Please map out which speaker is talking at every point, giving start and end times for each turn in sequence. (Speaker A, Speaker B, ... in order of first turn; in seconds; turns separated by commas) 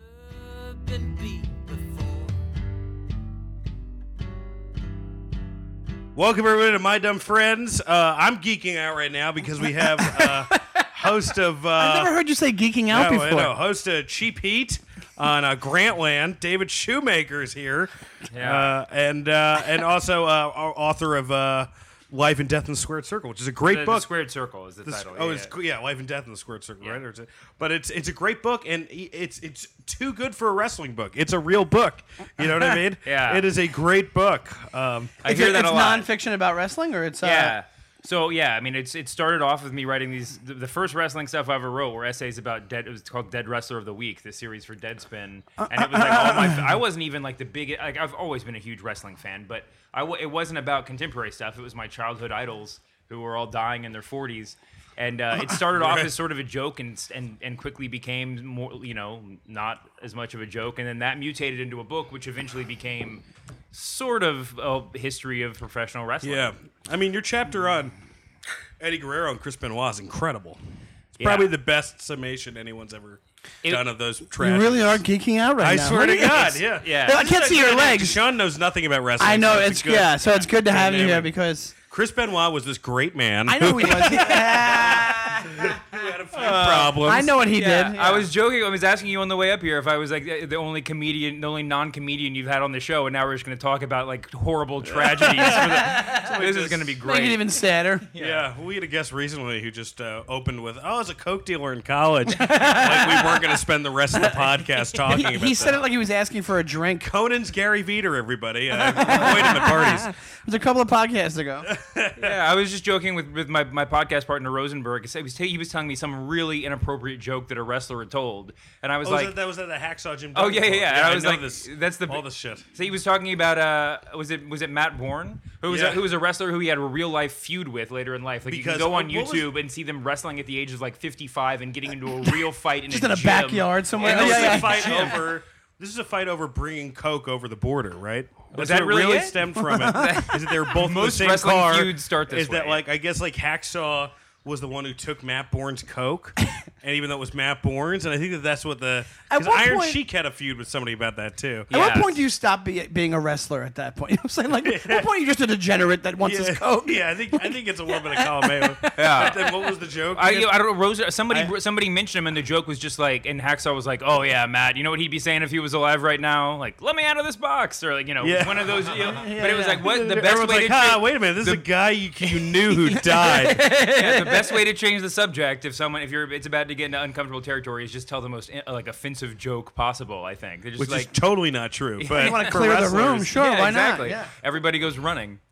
Speaker A: 0.3-2.5, Speaker B: 6.1-12.2, Speaker C: 9.8-10.9, Speaker C: 11.8-13.5, Speaker B: 12.9-24.1, Speaker D: 18.3-18.7, Speaker D: 23.6-25.5, Speaker B: 24.8-35.2, Speaker D: 33.0-33.5, Speaker D: 35.2-36.1, Speaker C: 35.2-37.5, Speaker D: 37.2-66.5, Speaker C: 45.6-46.8, Speaker B: 55.5-56.1, Speaker B: 66.2-67.9, Speaker B: 68.8-70.6, Speaker B: 71.1-75.0, Speaker D: 71.2-71.5, Speaker C: 74.3-78.2, Speaker B: 75.6-81.3, Speaker D: 76.8-77.2, Speaker C: 79.2-81.7, Speaker B: 81.9-87.3, Speaker C: 83.5-85.8, Speaker D: 86.4-97.4, Speaker C: 86.5-88.3, Speaker B: 94.8-96.9, Speaker C: 95.5-96.0, Speaker C: 97.0-98.1, Speaker D: 98.0-98.5, Speaker B: 98.2-105.8, Speaker C: 102.3-103.5, Speaker C: 105.1-107.1, Speaker B: 107.0-110.1, Speaker C: 108.7-111.7, Speaker B: 111.6-112.3, Speaker D: 112.1-119.3, Speaker B: 119.0-122.6, Speaker D: 120.3-135.2, Speaker B: 125.7-126.0, Speaker B: 128.4-129.5, Speaker C: 132.9-135.2, Speaker B: 134.0-151.7, Speaker D: 138.5-142.8, Speaker C: 139.6-140.2, Speaker C: 149.3-150.0, Speaker D: 151.7-152.2, Speaker C: 151.7-158.9, Speaker B: 154.6-155.1, Speaker B: 156.2-160.6, Speaker D: 158.9-159.5, Speaker D: 160.1-171.6, Speaker B: 168.2-169.2, Speaker C: 169.1-169.8, Speaker B: 169.8-173.6, Speaker C: 172.9-174.4, Speaker D: 173.6-181.2, Speaker B: 180.8-183.6, Speaker D: 182.0-185.4, Speaker C: 182.1-184.3